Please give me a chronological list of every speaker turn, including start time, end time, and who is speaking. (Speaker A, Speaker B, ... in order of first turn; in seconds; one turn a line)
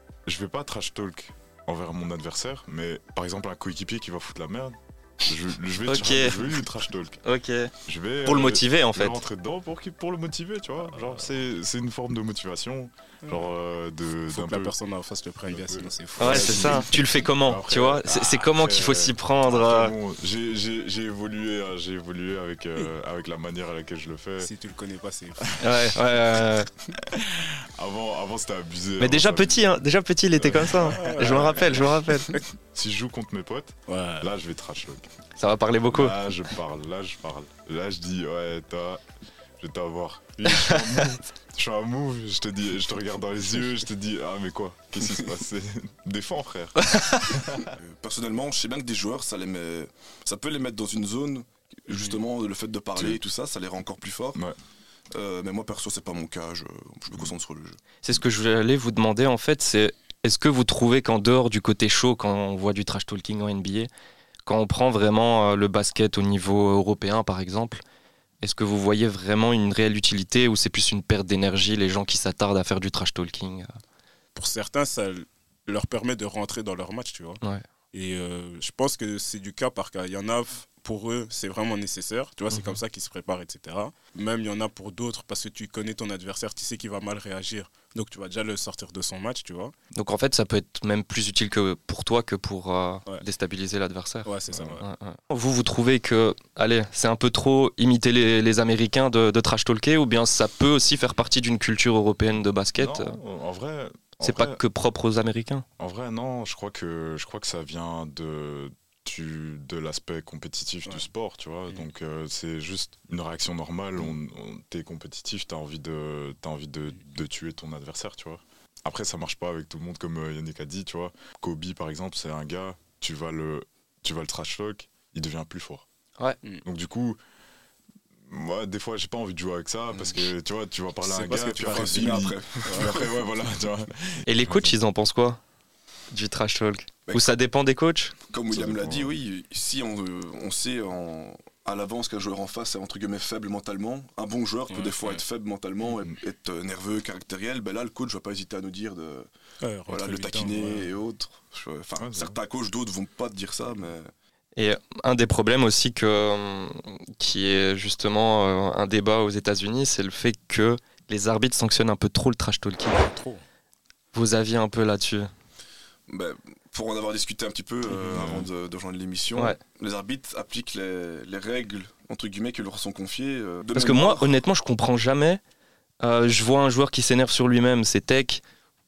Speaker A: 0.3-7.2
Speaker B: 5.8-6.6
Speaker B: 7.2-7.7
Speaker A: 7.8-14.8
Speaker B: 8.2-9.2
Speaker C: 10.9-11.2
Speaker C: 13.2-13.5
Speaker C: 14.3-16.8
Speaker A: 15.5-24.5
Speaker B: 16.2-19.9
Speaker D: 16.4-16.8
Speaker C: 24.4-25.6
Speaker A: 25.5-25.8
Speaker B: 25.6-26.7
Speaker A: 27.0-29.7
Speaker B: 29.0-32.3
Speaker A: 30.4-31.9
Speaker C: 30.6-32.4
Speaker A: 32.7-35.1
Speaker C: 33.9-34.3
Speaker B: 35.4-36.2
Speaker A: 35.9-39.0
Speaker A: 39.6-47.7
Speaker B: 40.5-41.2
Speaker B: 46.8-47.3
Speaker D: 47.7-54.4
Speaker C: 51.9-52.2
Speaker D: 55.1-57.8
Speaker B: 58.0-63.9
Speaker B: 64.5-67.8
Speaker B: 68.4-73.7
Speaker C: 74.3-77.4
Speaker C: 77.9-89.7
Speaker B: 90.0-103.2
Speaker C: 94.2-94.8
Speaker A: 94.5-94.8
Speaker A: 102.8-104.6
Speaker B: 104.2-105.7
Speaker A: 105.8-125.8
Speaker A: 126.6-127.2
Speaker A: 128.3-134.8
Speaker D: 129.9-130.2
Speaker D: 131.1-133.2
Speaker C: 131.1-132.9
Speaker B: 134.3-135.4
Speaker B: 136.1-138.1
Speaker D: 137.1-137.4
Speaker D: 138.3-149.3
Speaker A: 138.5-139.1
Speaker C: 144.7-145.2
Speaker C: 149.6-150.9
Speaker D: 149.9-154.1
Speaker A: 152.0-152.3
Speaker B: 154.6-163.0
Speaker C: 162.9-163.4
Speaker B: 164.1-165.3
Speaker D: 166.1-174.4
Speaker A: 167.9-168.5
Speaker B: 173.8-175.4
Speaker B: 176.0-178.4